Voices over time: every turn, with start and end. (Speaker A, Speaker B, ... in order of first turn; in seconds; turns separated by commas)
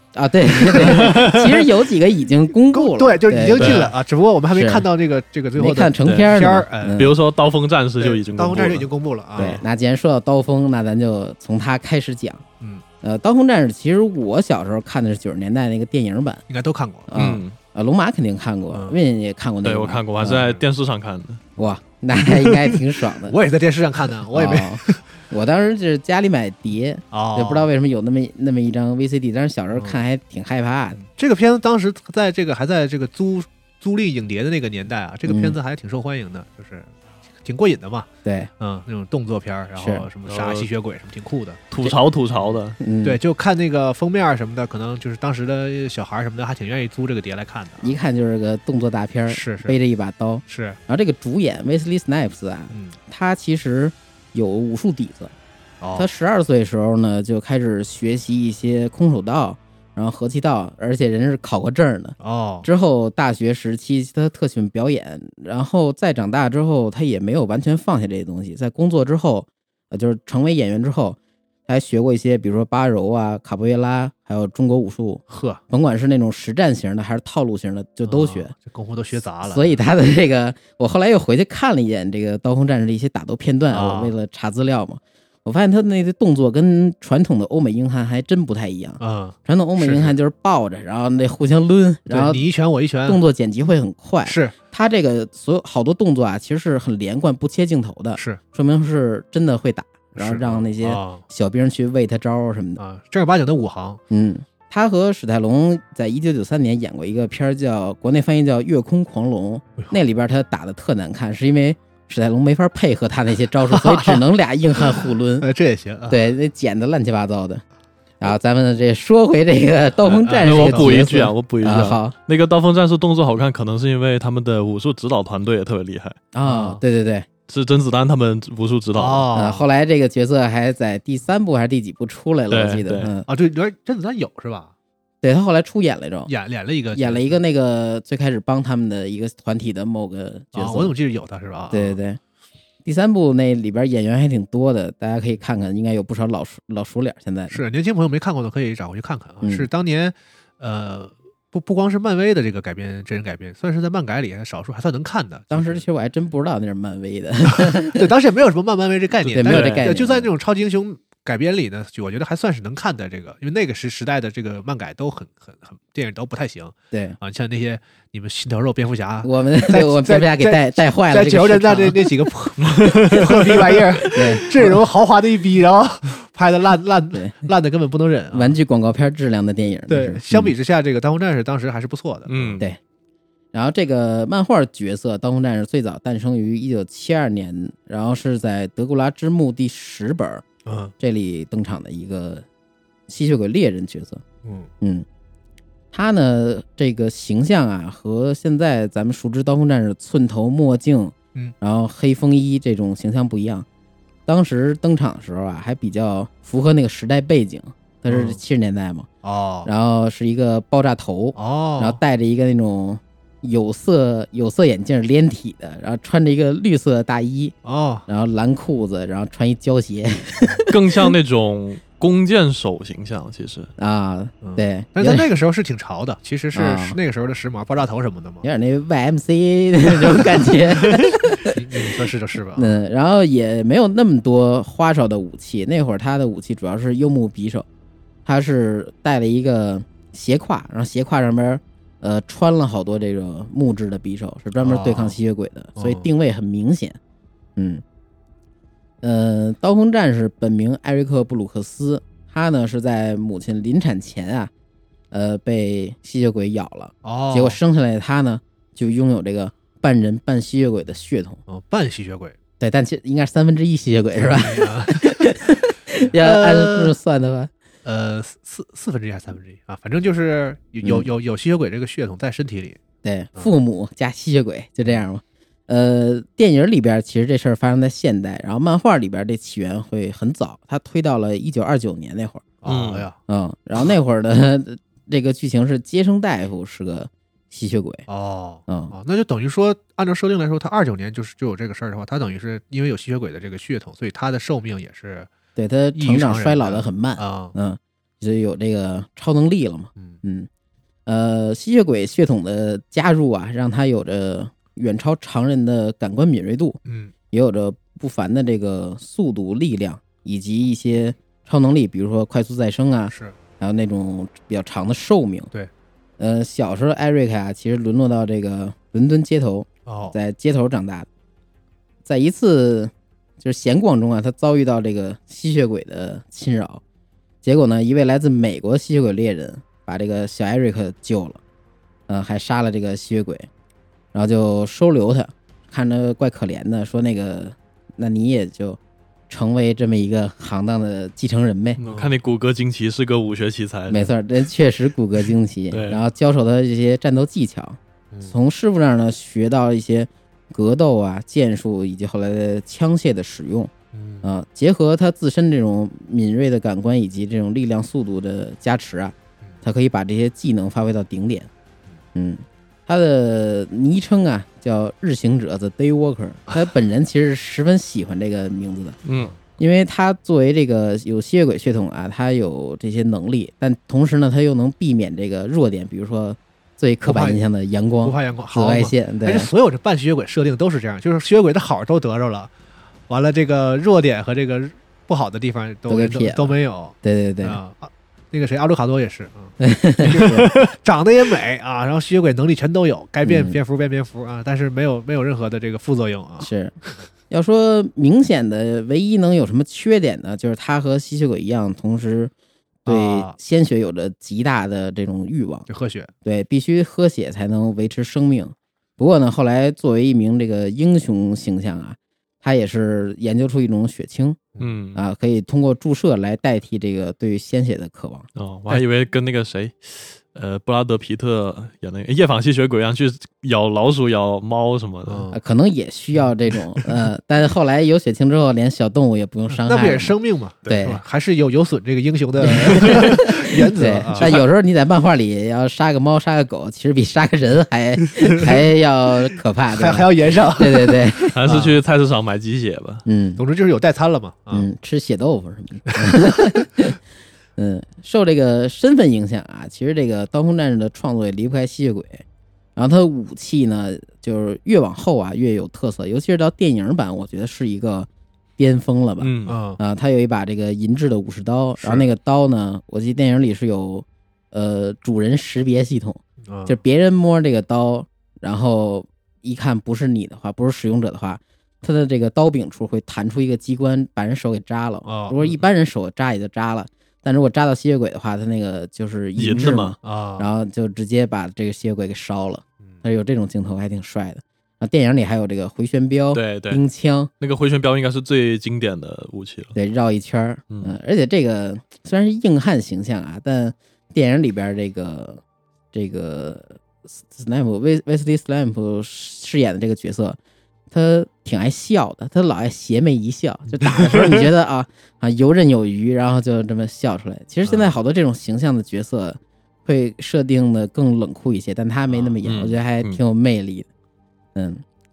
Speaker A: 0.1-3.9, Speaker B: 0.6-1.4, Speaker C: 0.9-1.4, Speaker B: 2.7-7.1, Speaker C: 3.6-3.9, Speaker A: 4.5-4.9, Speaker A: 5.6-7.1, Speaker C: 7.0-8.9, Speaker B: 8.0-9.6, Speaker A: 9.4-12.4, Speaker A: 13.0-16.4, Speaker B: 16.5-17.1, Speaker A: 17.1-20.5, Speaker C: 17.1-17.6, Speaker B: 18.7-19.0, Speaker C: 19.6-21.4, Speaker B: 20.3-20.6, Speaker A: 21.6-23.4, Speaker B: 23.2-25.1, Speaker A: 24.3-31.0, Speaker B: 27.1-27.7, Speaker B: 31.0-38.1, Speaker A: 35.3-35.6, Speaker A: 38.2-38.5, Speaker B: 38.6-41.7, Speaker A: 39.8-40.1, Speaker C: 40.3-40.7, Speaker C: 41.7-42.8, Speaker B: 42.3-48.0, Speaker A: 42.8-43.2, Speaker A: 47.8-55.3, Speaker B: 49.3-49.8, Speaker B: 50.5-50.8, Speaker B: 52.7-53.0, Speaker B: 55.8-56.1, Speaker A: 56.0-78.5, Speaker B: 62.2-62.7, Speaker B: 75.3-75.6, Speaker B: 78.0-79.8, Speaker A: 79.5-92.5, Speaker B: 83.7-84.1, Speaker B: 89.0-90.2, Speaker B: 92.1-93.2, Speaker A: 93.0-102.8, Speaker B: 94.3-94.5, Speaker B: 100.2-101.2, Speaker B: 102.8-104.0, Speaker A: 104.1-115.5, Speaker B: 113.7-114.2, Speaker B: 114.8-116.2, Speaker A: 116.1-117.6, Speaker A: 118.2-122.2, Speaker B: 120.0-121.2, Speaker C: 120.4-126.2, Speaker A: 126.3-127.3, Speaker B: 126.4-126.8, Speaker C: 127.5-129.3, Speaker B: 128.9-129.7, Speaker A: 129.3-133.3, Speaker C: 132.5-133.1, Speaker B: 133.3-134.7, Speaker A: 135.2-136.3, Speaker B: 136.3-137.4, Speaker A: 136.9-140.9, Speaker B: 140.5-142.0, Speaker A: 141.7-142.2, Speaker A: 142.8-147.6, Speaker B: 147.5-155.8, Speaker A: 149.4-149.7, Speaker A: 155.5-158.1, Speaker B: 157.5-178.6, Speaker A: 159.3-160.3, Speaker C: 159.4-159.9, Speaker A: 166.9-167.2, Speaker A: 169.2-172.1, Speaker C: 172.6-174.2, Speaker A: 174.1-174.5, Speaker A: 178.3-180.5, Speaker B: 179.9-182.6, Speaker C: 182.3-182.7, Speaker A: 183.5-190.4, Speaker B: 190.7-190.9, Speaker A: 191.0-192.4, Speaker A: 193.1-194.2, Speaker B: 194.4-194.7, Speaker A: 194.8-195.1, Speaker A: 195.9-203.7, Speaker A: 204.3-209.1, Speaker B: 208.1-208.4, Speaker B: 209.2-209.7, Speaker A: 209.7-217.6, Speaker B: 211.4-212.0, Speaker B: 217.6-218.1, Speaker A: 218.1-220.8, Speaker C: 220.7-223.7, Speaker A: 223.8-225.3, Speaker B: 224.4-228.5, Speaker A: 226.6-227.0, Speaker A: 228.4-231.6, Speaker B: 230.1-232.8, Speaker A: 232.6-237.7, Speaker A: 238.3-247.0, Speaker B: 244.6-245.2, Speaker B: 245.8-246.1, Speaker A: 247.6-247.8, Speaker A: 249.0-254.5, Speaker A: 255.1-261.4, Speaker B: 257.0-257.6, Speaker B: 261.5-262.4, Speaker A: 262.6-267.5, Speaker B: 264.2-265.5, Speaker B: 266.1-266.9, Speaker B: 267.8-272.8, Speaker A: 270.8-271.1, Speaker A: 273.0-282.4, Speaker B: 282.6-283.2, Speaker C: 282.7-283.1, Speaker A: 283.3-288.1, Speaker B: 288.1-295.3, Speaker A: 288.7-288.9, Speaker A: 295.6-300.5, Speaker B: 295.9-297.6, Speaker A: 301.1-306.8, Speaker B: 306.9-307.1, Speaker A: 307.3-315.5, Speaker B: 313.1-313.4, Speaker A: 316.2-321.1, Speaker B: 319.9-320.2, Speaker A: 322.1-326.8, Speaker A: 327.4-331.4, Speaker A: 332.1-333.5, Speaker A: 334.1-338.8, Speaker A: 339.3-341.8, Speaker C: 341.8-344.1, Speaker B: 341.8-342.1, Speaker A: 343.9-353.7, Speaker C: 345.7-346.0, Speaker B: 353.9-354.3, Speaker A: 354.2-361.5, Speaker A: 362.1-369.0, Speaker C: 369.1-369.3, Speaker A: 369.6-379.5, Speaker B: 377.0-377.4, Speaker B: 378.0-382.5, Speaker B: 383.1-396.5, Speaker A: 385.9-387.6, Speaker A: 389.6-390.5, Speaker A: 393.2-393.6, Speaker A: 396.4-396.8, Speaker A: 397.3-402.3, Speaker B: 402.9-403.4, Speaker A: 402.9-405.7, Speaker B: 405.7-406.1, Speaker A: 406.2-414.4, Speaker C: 414.6-415.0, Speaker A: 414.9-418.3, Speaker C: 418.4-425.3, Speaker B: 425.1-425.4, Speaker A: 425.3-431.0, Speaker B: 429.5-434.4, Speaker A: 432.4-441.6, Speaker C: 432.7-433.0, Speaker B: 439.7-441.8, Speaker C: 441.3-443.1, Speaker A: 443.1-443.4, Speaker B: 443.4-444.7, Speaker A: 444.5-447.0, Speaker A: 447.6-452.2, Speaker A: 452.8-487.3, Speaker C: 459.2-459.6, Speaker B: 459.5-459.8, Speaker B: 461.8-462.1, Speaker B: 466.4-466.8, Speaker B: 475.1-475.6, Speaker C: 479.4-479.9, Speaker B: 480.0-480.5, Speaker C: 486.3-486.8, Speaker C: 487.4-489.8, Speaker A: 489.8-495.4, Speaker A: 495.9-500.4, Speaker A: 500.9-513.9, Speaker B: 503.8-504.4, Speaker B: 507.6-508.0, Speaker B: 512.1-512.4, Speaker C: 512.4-513.2, Speaker A: 514.5-514.8